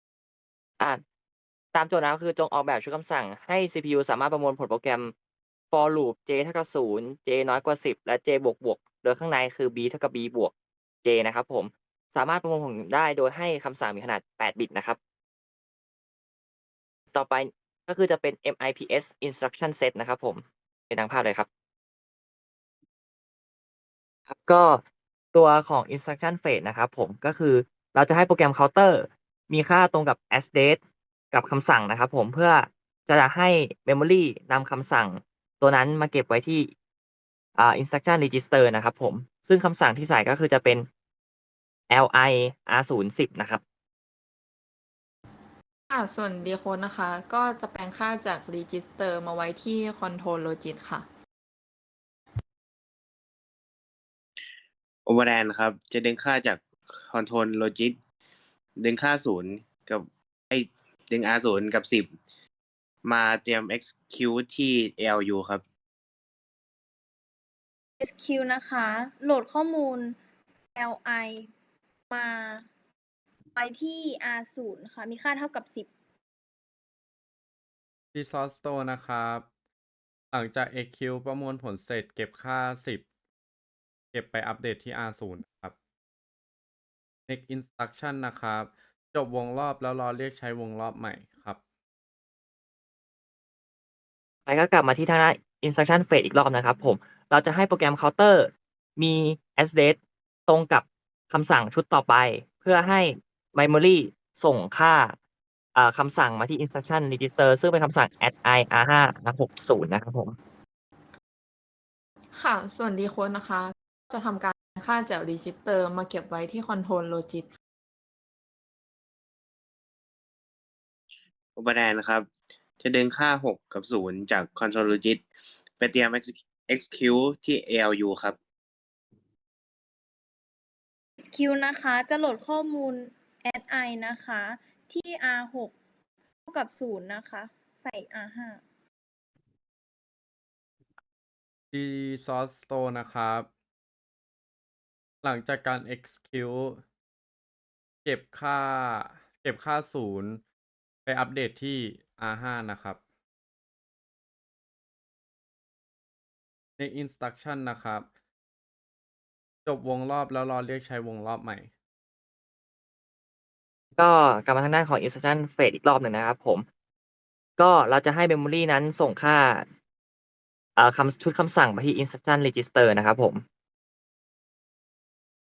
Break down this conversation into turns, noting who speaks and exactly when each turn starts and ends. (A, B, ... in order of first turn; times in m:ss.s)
0:01.7-0:05.1 A
0:05.7-0:10.5 A
0:11.0-0:15.0 A
0:17.1-0:21.5 A
0:24.3-0:24.8 A
0:25.3-0:30.8 A
0:31.3-0:36.7 A
0:37.6-0:40.9 A
0:41.9-0:43.6 A
0:45.9-0:51.1 B
0:55.1-0:58.0 C
0:58.8-1:02.1 C
1:03.0-1:05.6 C
1:08.0-1:10.2 D
1:10.8-1:11.5 D
1:12.1-1:12.7 D
1:13.6-1:15.9 D
1:18.1-1:19.5 E
1:20.3-1:23.0 E
1:24.1-1:25.8 E
1:27.3-1:31.6 E
1:34.5-1:45.2 A
1:45.8-1:50.4 A
1:52.3-1:57.5 B
2:01.6-2:02.3 C
2:02.8-2:05.2 C
2:05.8-2:08.4 C
2:11.2-2:15.7 D
2:16.5-2:18.6 D
2:21.7-2:23.5 E
2:25.2-2:26.8 E
2:28.0-2:30.4 E
2:31.1-2:33.0 E
2:36.8-2:38.1 E
2:39.7-2:41.7 E
2:44.0-2:46.7 A
2:47.6-2:49.7 A
2:50.8-2:53.4 A